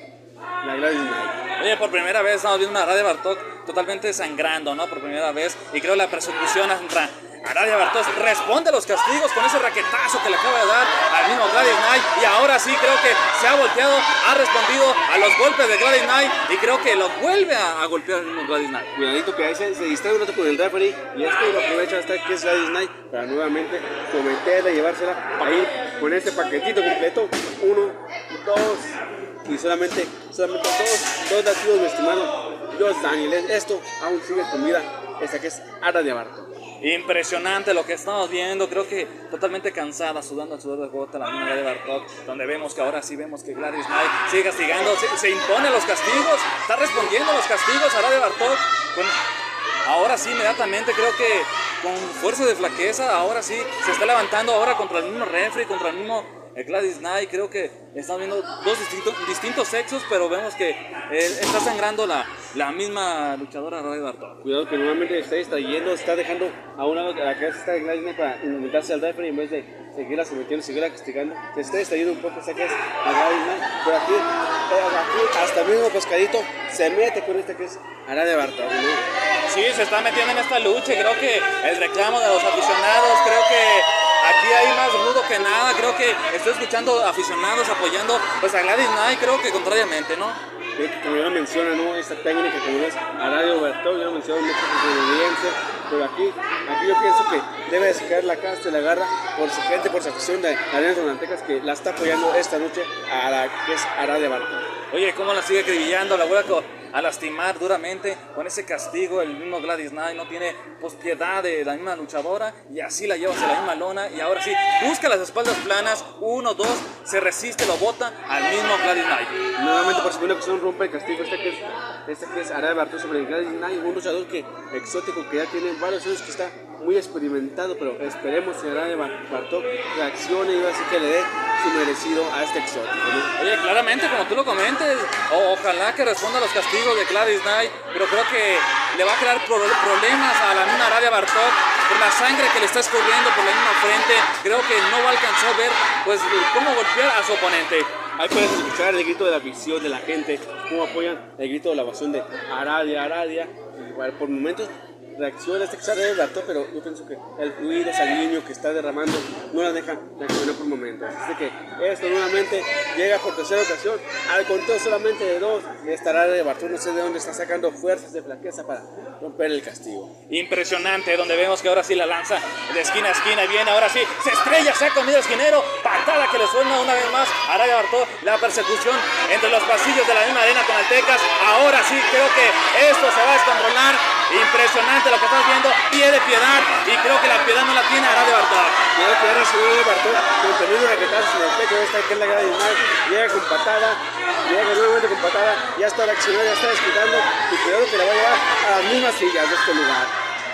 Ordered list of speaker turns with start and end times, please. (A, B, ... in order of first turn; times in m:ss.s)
0:00.6-0:01.4 A
0:01.6-0:18.9 B
0:19.0-0:36.5 A
0:36.8-0:49.2 B
0:49.8-1:04.4 B
1:04.4-1:19.0 A
1:19.5-1:30.4 B
1:30.8-1:44.7 A
1:44.9-1:59.4 B
1:59.6-2:13.3 A
2:13.4-2:27.9 B
2:28.2-2:50.1 A
2:50.3-3:08.9 B
3:09.0-3:20.1 A